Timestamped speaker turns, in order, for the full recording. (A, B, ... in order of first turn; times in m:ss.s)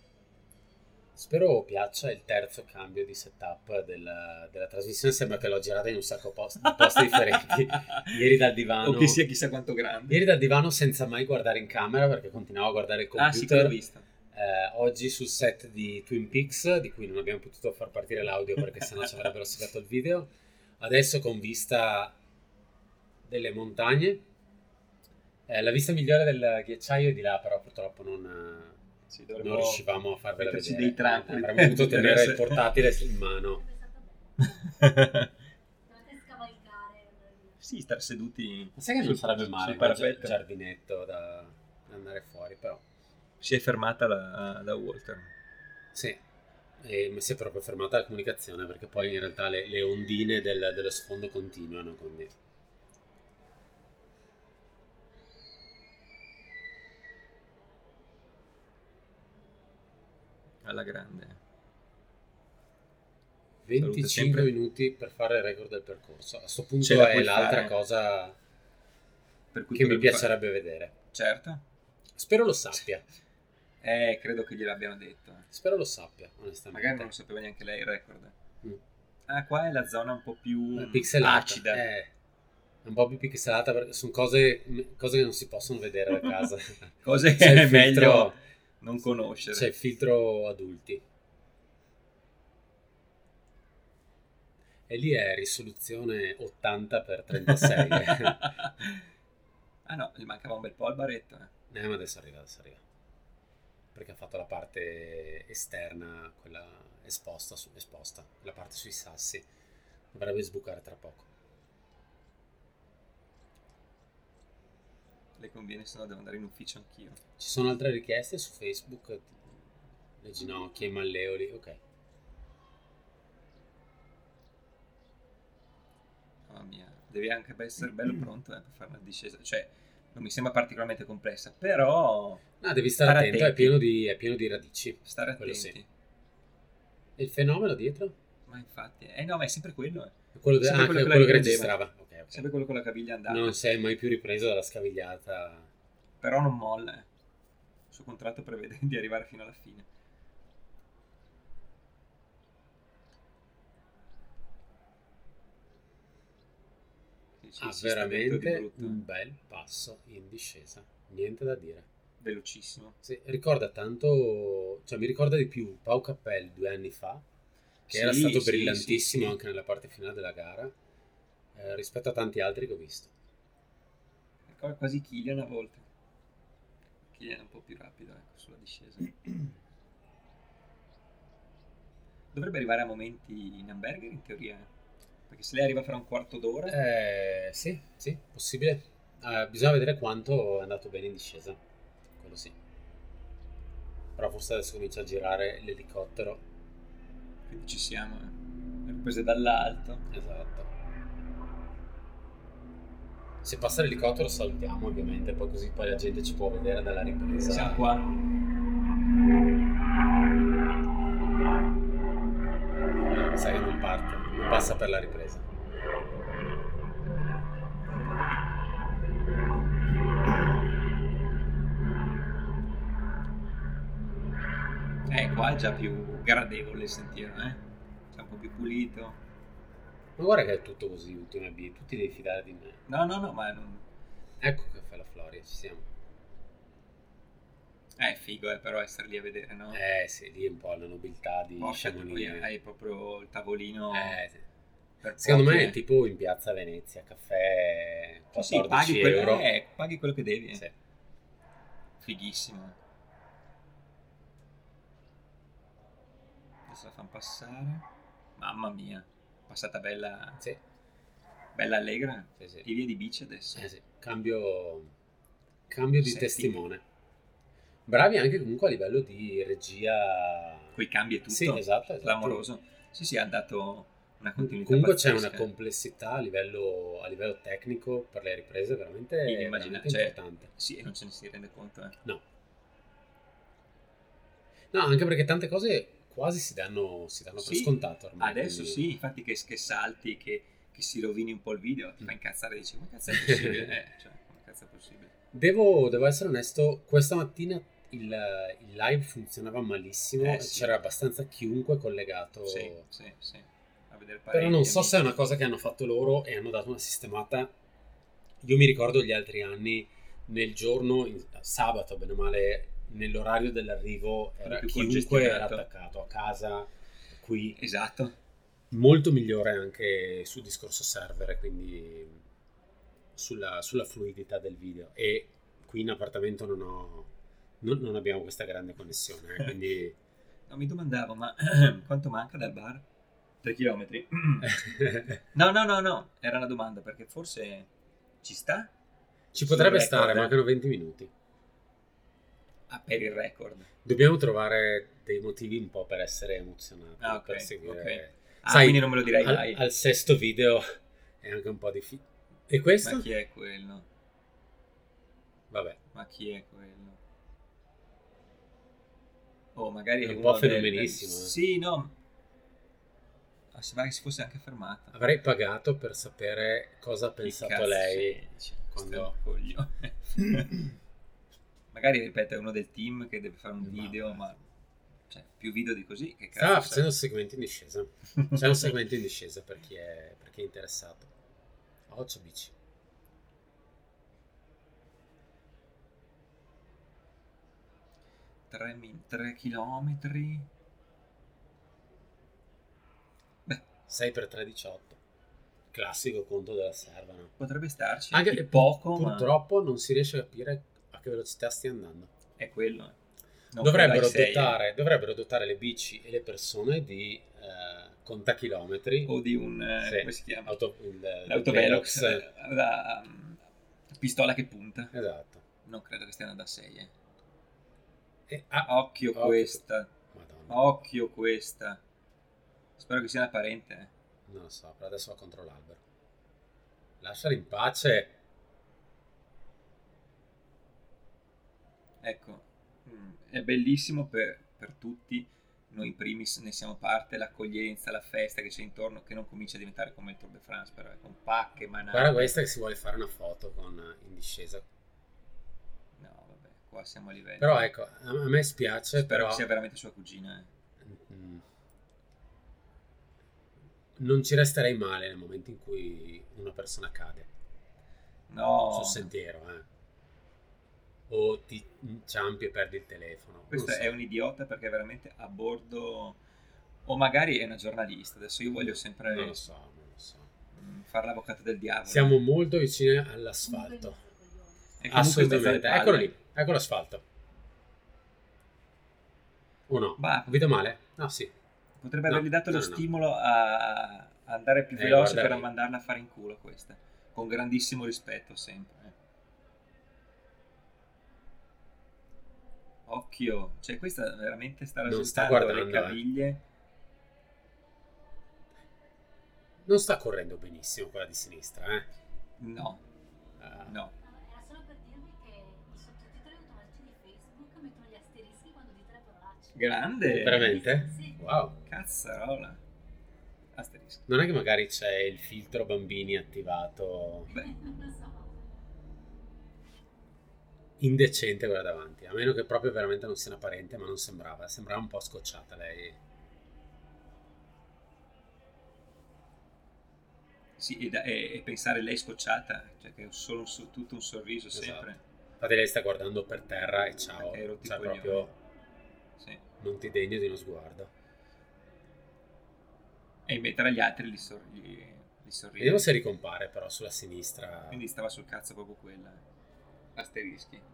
0:01.2-0:09.2 A
0:06.6-0:08.2 B
0:08.8-0:10.2 B
0:10.1-0:13.8 A
0:13.2-0:14.0 B
0:14.3-0:22.2 A
0:23.2-0:24.2 A
0:25.5-0:28.8 A
0:29.1-0:29.8 B
0:29.4-0:33.6 A
0:30.4-0:32.7 B
0:32.6-0:35.2 C
0:34.4-0:35.3 B
0:35.8-0:37.6 C
0:37.6-0:40.4 B
0:38.8-0:42.8 A
0:43.4-0:45.3 B
0:45.9-0:46.2 A
0:46.8-0:52.3 A
1:00.6-1:01.4 B
1:03.6-1:08.4 A
1:03.8-1:04.5 B
1:06.8-1:07.7 B
1:09.5-1:10.3 B
1:09.7-1:10.9 A
1:11.1-1:11.6 B
1:12.2-1:13.0 A
1:13.8-1:15.4 B
1:15.5-1:17.1 A
1:16.7-1:18.3 B
1:19.3-1:21.8 B
1:20.7-1:22.1 A
1:22.8-1:28.4 A
1:27.0-1:29.7 B
1:29.4-1:31.0 A
1:34.9-1:38.6 A
1:37.5-1:39.0 B
1:39.8-1:41.5 B
1:41.7-1:42.8 A
1:43.9-1:49.4 A
1:50.1-1:51.3 A
1:55.4-1:57.2 B
1:57.4-1:59.6 A
2:00.2-2:01.8 A
2:06.5-2:12.4 B
2:12.6-2:15.8 A
2:13.0-2:13.8 B
2:15.0-2:15.8 B
2:17.2-2:18.1 A
2:18.5-2:21.8 B
2:20.3-2:22.5 A
2:22.3-2:23.6 B
2:23.3-2:25.7 A
2:26.2-2:27.1 B
2:27.9-2:29.9 B
2:37.4-2:39.0 B
2:37.6-2:41.8 A
2:42.2-2:43.0 B
2:43.0-2:47.2 A
2:47.9-2:49.4 B
2:47.9-2:50.7 A
2:51.5-2:53.1 A
2:54.4-2:55.8 B
2:57.0-2:59.5 B
3:02.3-3:04.7 B
3:05.3-3:06.8 B
3:06.7-3:11.6 A
3:12.2-3:12.5 A
3:14.2-3:16.4 A
3:17.5-3:20.0 B
3:20.1-3:20.7 A
3:23.4-3:27.8 A
3:27.5-3:28.2 B
3:33.1-3:35.4 A
3:45.1-3:49.2 B
3:50.2-3:52.8 A
3:52.9-3:53.8 B
3:54.4-3:55.8 A
3:58.0-3:59.8 B
3:59.7-4:02.5 A
4:01.6-4:04.2 B
4:03.9-4:04.4 A
4:05.0-4:05.8 B
4:05.2-4:09.5 A
4:08.3-4:10.6 B
4:12.0-4:12.8 B
4:16.7-4:17.8 B
4:18.4-4:20.4 B
4:21.5-4:23.6 B
4:22.4-4:22.6 A
4:23.5-4:24.9 A
4:25.7-4:26.8 A
4:26.0-4:26.6 B
4:27.9-4:30.8 A
4:30.7-4:35.5 B
4:31.3-4:32.4 A
4:34.4-4:40.5 A
4:39.2-4:42.0 B
4:44.7-4:48.8 A
4:47.4-4:55.1 B
4:53.1-4:53.7 A
4:55.3-5:02.8 A
5:00.2-5:00.7 B
5:02.4-5:05.1 B
5:04.3-5:07.5 A
5:08.4-5:17.6 A
5:14.4-5:15.6 B
5:17.6-5:18.2 B
5:18.7-5:22.2 A
5:23.2-5:27.1 A
5:27.6-5:29.9 A
5:30.5-5:32.8 B
5:33.4-5:34.6 B
5:34.4-5:35.2 A
5:35.3-5:37.7 B
5:38.2-5:38.7 B
5:39.3-5:41.1 A
5:39.4-5:40.3 B
5:42.7-5:43.7 B
5:43.8-5:53.1 A
5:47.0-5:49.6 B
5:52.8-5:53.9 B
5:55.5-5:55.8 A
5:55.9-5:57.0 B
5:59.5-6:01.9 B
6:00.0-6:01.4 A
6:03.5-6:04.9 B
6:04.9-6:09.1 A
6:07.2-6:10.7 B
6:11.7-6:14.4 B
6:13.6-6:14.2 A
6:15.1-6:16.9 B
6:16.3-6:21.1 A
6:18.2-6:18.6 B
6:21.9-6:22.5 A
6:28.5-6:30.5 B
6:33.9-6:35.0 A
6:35.7-6:37.3 A
6:37.4-6:39.3 B
6:38.1-6:42.1 A
6:42.4-6:43.0 B
6:43.5-6:44.6 B
6:43.6-6:49.1 A
6:49.0-6:50.5 B
6:49.8-6:52.2 A
6:51.2-6:53.4 B
6:53.9-6:54.9 B
6:54.9-6:55.4 A
6:55.6-6:56.9 B
6:58.3-7:00.6 A
6:58.6-6:59.9 B
7:00.5-7:01.8 B
7:02.8-7:03.9 B
7:04.3-7:05.8 A
7:07.0-7:08.1 A
7:12.0-7:22.4 B
7:21.9-7:24.6 A
7:26.0-7:27.7 B
7:27.4-7:29.4 A
7:29.0-7:30.5 B
7:30.8-7:31.4 A
7:34.0-7:37.3 A
7:38.3-7:39.1 B
7:38.7-7:39.6 A
7:41.1-7:44.0 A
7:43.5-7:46.2 B
7:46.8-7:49.4 B
7:48.6-7:50.3 A
7:50.5-7:52.2 B
7:51.8-7:54.0 A
7:53.4-7:55.0 C
7:54.8-7:56.1 B
7:54.9-7:57.0 A
7:59.7-8:01.3 A
8:00.0-8:00.4 B
8:01.8-8:08.9 B
8:02.1-8:02.8 A
8:04.7-8:05.5 A
8:12.8-8:16.4 B
8:14.8-8:16.0 A
8:19.6-8:21.9 A
8:22.4-8:22.8 B
8:23.4-8:23.8 A
8:23.6-8:23.9 B
8:24.0-8:29.6 C
8:29.5-8:30.7 B
8:30.0-8:31.6 A
8:30.4-8:31.2 C
8:31.7-8:32.6 B
8:33.5-8:34.0 B
8:34.1-8:37.3 A
8:37.3-8:38.4 C
8:40.8-8:46.0 A
8:50.6-8:55.0 B
8:54.5-8:58.3 A
8:57.2-8:58.3 B
8:59.2-8:59.4 B
8:59.6-9:00.9 A
9:03.2-9:05.9 B
9:05.6-9:07.8 A
9:07.7-9:09.2 B
9:09.9-9:10.6 B